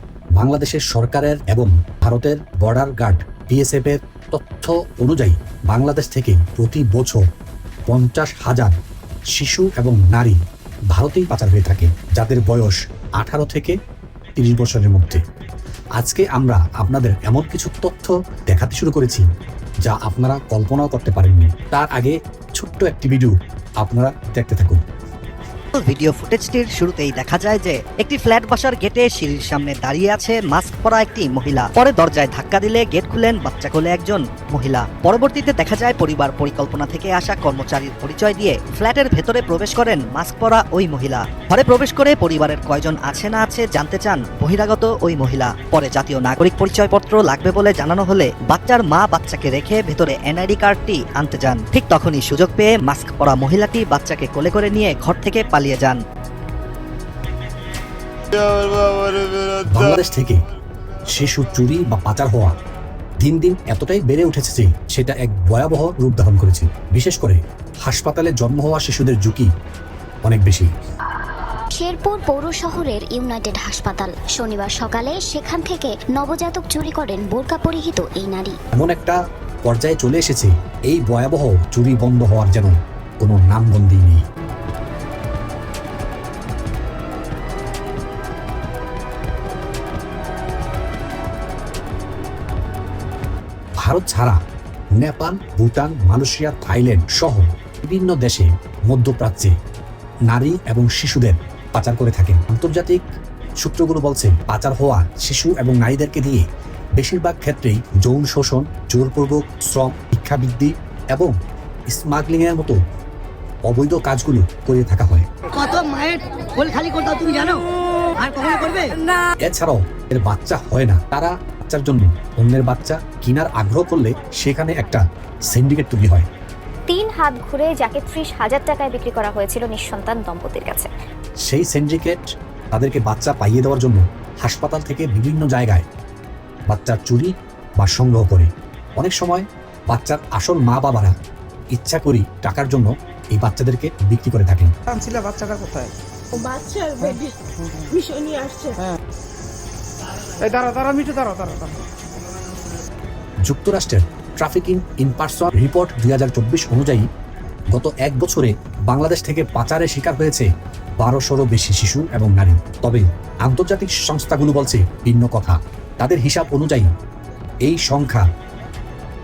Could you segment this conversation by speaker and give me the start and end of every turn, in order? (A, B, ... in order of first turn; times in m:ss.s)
0:00.4-0:07.2 A
0:07.9-0:08.8 A
0:09.3-0:10.4 A
0:10.9-0:13.7 A
0:14.4-0:15.2 A
0:16.0-0:19.2 A
0:19.8-0:24.8 A
0:25.7-0:56.0 B
0:59.7-1:00.4 A
1:01.1-1:02.5 A
1:03.2-1:09.5 A
1:10.2-1:10.7 A
1:11.7-1:18.6 C
1:18.7-1:24.2 A
1:33.8-1:34.4 A
1:35.0-1:39.5 A
1:40.3-1:43.0 A
1:43.6-1:46.4 A
1:47.0-1:51.3 A
1:51.9-1:52.8 A
1:53.7-1:55.3 A
1:55.5-1:59.1 D
1:59.4-2:06.3 A
2:06.9-2:10.9 E
2:11.5-2:15.8 A
2:16.7-2:21.1 A
2:21.7-2:24.7 A
2:24.9-2:25.9 F
2:26.4-2:27.4 G
2:27.9-2:28.8 G
2:30.4-2:31.8 F
2:33.4-2:37.0 A
2:37.7-2:40.5 A
2:41.0-2:46.9 A
2:47.6-2:48.2 A